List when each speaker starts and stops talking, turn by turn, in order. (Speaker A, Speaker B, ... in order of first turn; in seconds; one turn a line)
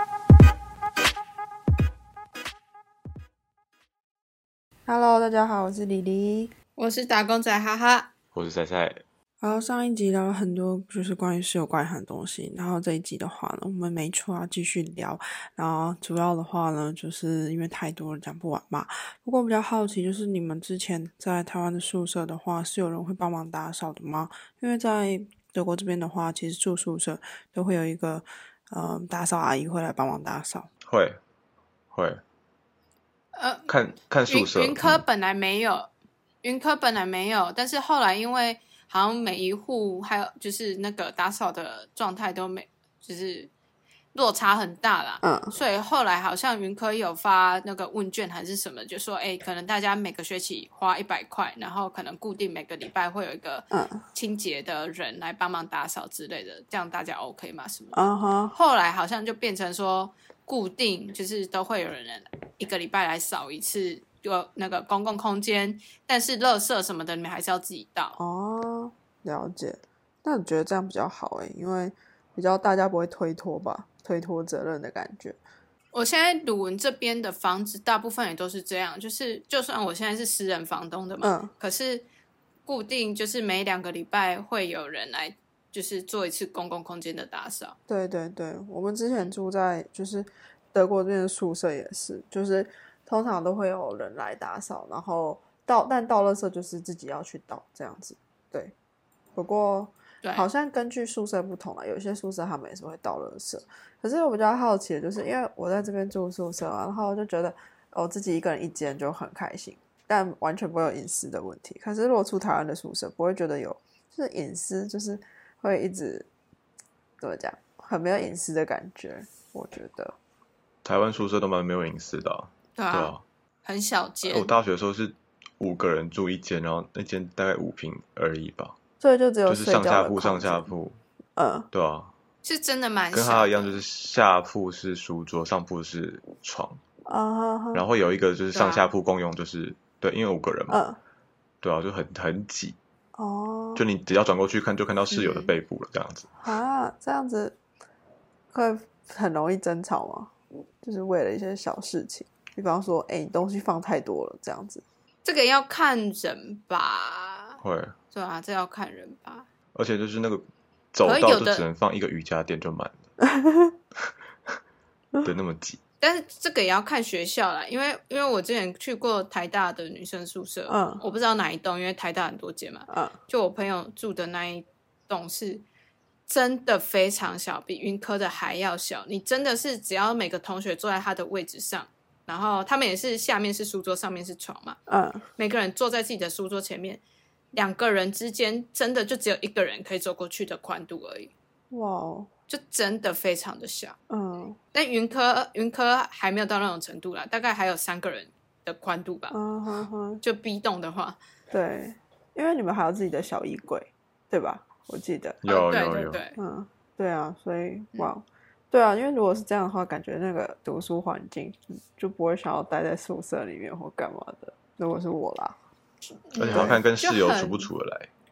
Speaker A: 4.9-6.5
Speaker B: 6.8-8.1
Speaker C: 8.3-9.0
Speaker A: 9.4-30.7
Speaker C: 30.9-31.2
Speaker C: 31.9-32.2
Speaker B: 33.4-33.7
Speaker C: 33.7-35.0
Speaker B: 34.3-35.9
Speaker B: 36.4-43.5
Speaker B: 44.1-68.2
Speaker A: 45.2-45.5
Speaker A: 53.7-54.0
Speaker A: 57.9-58.5
Speaker A: 68.2-75.4
Speaker B: 75.9-82.1
Speaker A: 81.2-81.5
Speaker B: 82.7-87.8
Speaker A: 87.9-98.7
Speaker A: 99.3-116.3
Speaker A: 117.2-120.2
Speaker C: 120.8-123.2
Speaker B: 122.8-124.5
Speaker C: 124.3-128.8
Speaker A: 129.0-130.7
Speaker C: 129.5-131.0
Speaker A: 131.4-131.7
Speaker C: 131.7-132.1
Speaker B: 132.4-133.8
Speaker C: 133.1-136.8
Speaker A: 137.1-137.9
Speaker C: 137.7-140.8
Speaker B: 138.5-138.9
Speaker A: 140.7-141.0
Speaker C: 141.6-142.8
Speaker A: 143.2-143.8
Speaker C: 143.8-146.3
Speaker B: 145.1-145.5
Speaker A: 146.4-147.6
Speaker A: 148.5-154.8
Speaker B: 155.2-157.6
Speaker C: 157.6-158.0
Speaker B: 158.1-159.5
Speaker C: 159.8-163.1
Speaker B: 161.0-161.7
Speaker A: 163.2-163.7
Speaker C: 165.2-165.8
Speaker B: 166.0-175.6
Speaker A: 170.7-171.0
Speaker A: 172.9-173.1
Speaker B: 176.3-184.8
Speaker A: 184.9-185.2
Speaker B: 185.4-187.0
Speaker B: 187.5-191.3
Speaker A: 191.7-192.3
Speaker B: 192.5-194.0
Speaker A: 194.1-194.6
Speaker B: 194.7-199.4
Speaker A: 199.3-200.2
Speaker B: 200.2-201.2
Speaker A: 201.5-205.4
Speaker C: 205.4-206.2
Speaker B: 205.5-206.4
Speaker A: 206.4-215.6
Speaker B: 216.3-217.7
Speaker C: 216.4-218.1
Speaker A: 216.5-216.8